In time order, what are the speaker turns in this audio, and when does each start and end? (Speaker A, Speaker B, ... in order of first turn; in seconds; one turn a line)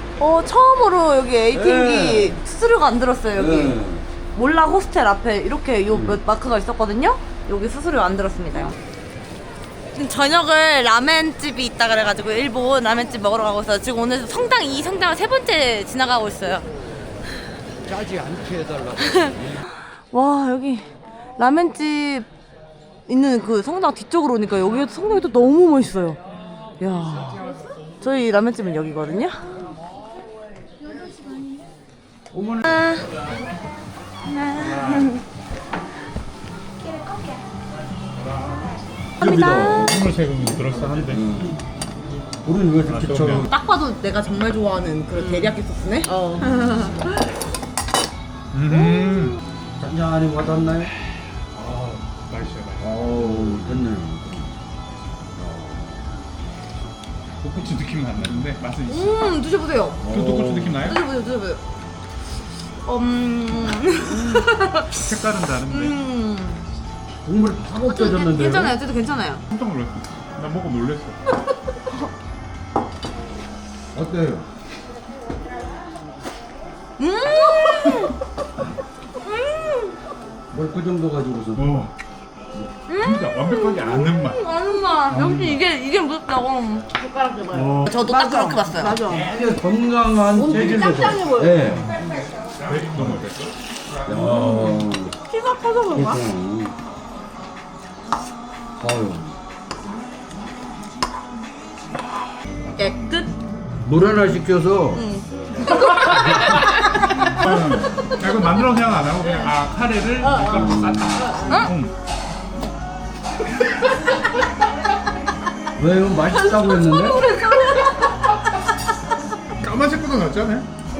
Speaker A: 0.2-3.8
Speaker B: 1.5-2.4
Speaker B: 3.3-4.0
Speaker A: 4.3-8.8
Speaker B: 5.9-6.2
Speaker A: 9.9-16.7
Speaker B: 17.8-19.6
Speaker A: 20.1-22.3
Speaker A: 23.1-26.2
Speaker A: 26.8-27.4
Speaker A: 28.0-29.4
Speaker C: 30.9-31.5
Speaker B: 32.3-32.7
Speaker A: 32.6-33.0
Speaker A: 34.2-35.2
Speaker D: 34.6-35.1
Speaker D: 38.3-38.7
Speaker A: 39.2-40.0
Speaker B: 39.2-40.0
Speaker D: 39.7-41.4
Speaker B: 40.7-41.6
Speaker B: 42.4-43.5
Speaker D: 42.9-43.5
Speaker A: 43.3-47.0
Speaker C: 46.0-46.5
Speaker D: 48.5-49.4
Speaker B: 49.8-50.9
Speaker D: 51.5-53.1
Speaker B: 52.8-54.5
Speaker B: 55.3-56.0
Speaker D: 57.4-59.3
Speaker A: 58.9-60.1
Speaker B: 60.0-60.8
Speaker D: 60.1-61.0
Speaker A: 60.8-61.6
Speaker A: 62.8-65.0
Speaker D: 64.9-66.0
Speaker A: 65.7-66.6
Speaker B: 67.2-68.8
Speaker A: 67.8-69.4
Speaker D: 69.5-71.2
Speaker B: 73.9-74.5
Speaker A: 77.0-78.1
Speaker A: 79.2-79.9
Speaker B: 80.5-81.8
Speaker D: 81.5-81.9
Speaker A: 82.9-86.9
Speaker D: 83.0-84.4
Speaker D: 85.1-85.6
Speaker C: 86.9-89.3
Speaker D: 87.5-88.0
Speaker A: 87.8-89.0
Speaker B: 89.1-91.9
Speaker C: 90.3-91.7
Speaker D: 92.6-93.5
Speaker B: 94.0-95.2
Speaker A: 95.3-96.0
Speaker C: 95.3-96.2
Speaker B: 95.9-96.8
Speaker B: 98.8-99.3
Speaker A: 102.7-103.3
Speaker B: 103.8-105.0
Speaker A: 104.9-106.4
Speaker D: 107.3-111.9
Speaker C: 110.2-111.5
Speaker B: 110.4-111.3
Speaker A: 111.4-111.7
Speaker B: 115.8-117.3
Speaker A: 116.3-118.0
Speaker D: 119.6-120.7